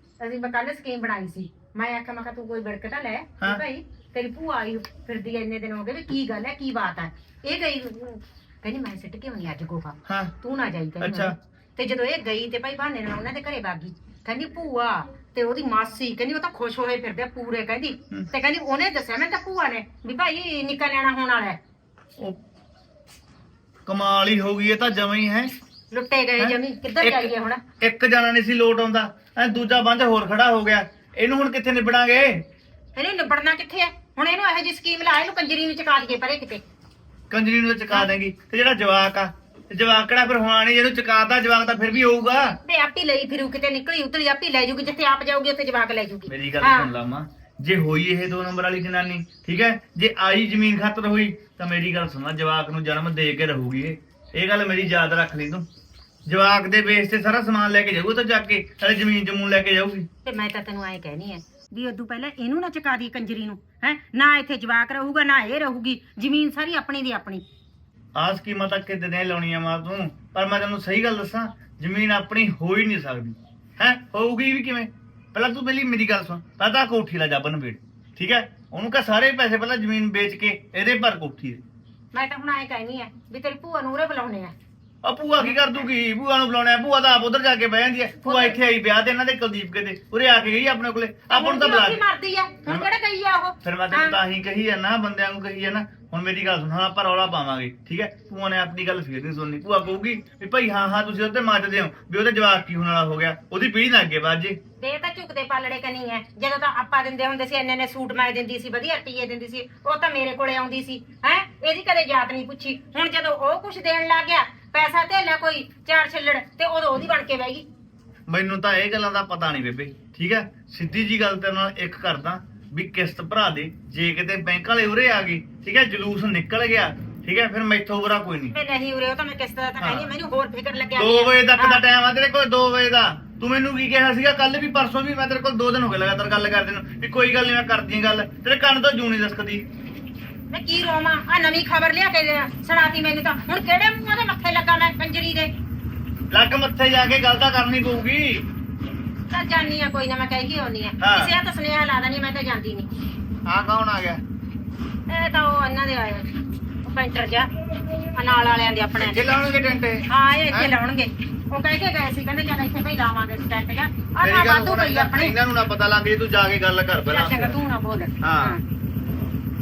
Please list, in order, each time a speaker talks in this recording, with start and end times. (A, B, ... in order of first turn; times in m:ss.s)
0:00.2-0:21.6 A
0:10.1-0:10.3 B
0:11.0-0:11.3 B
0:23.9-0:25.5 B
0:25.9-0:27.6 A
0:26.4-0:32.4 B
0:33.0-0:36.6 A
0:37.3-0:42.6 B
0:42.6-0:46.9 A
0:46.3-0:55.6 B
0:56.3-1:00.1 B
1:00.2-1:07.4 A
1:08.1-1:21.6 B
1:22.1-1:24.5 A
1:25.0-1:32.0 B
1:28.2-1:28.6 A
1:31.3-1:34.2 A
1:33.6-1:44.6 B
1:44.8-1:57.7 A
1:58.3-2:08.5 B
2:08.5-2:11.8 A
2:09.8-2:10.1 B
2:11.0-2:19.6 B
2:20.5-2:25.5 A
2:26.3-2:28.4 B
2:29.3-2:32.9 A
2:31.0-2:31.3 B
2:33.5-2:34.2 B
2:35.1-2:36.3 A
2:36.8-2:37.5 A
2:38.1-2:39.3 A
2:39.0-2:40.7 B
2:40.1-2:45.4 A
2:44.2-2:47.5 B
2:47.1-2:48.6 A
2:48.2-2:48.6 B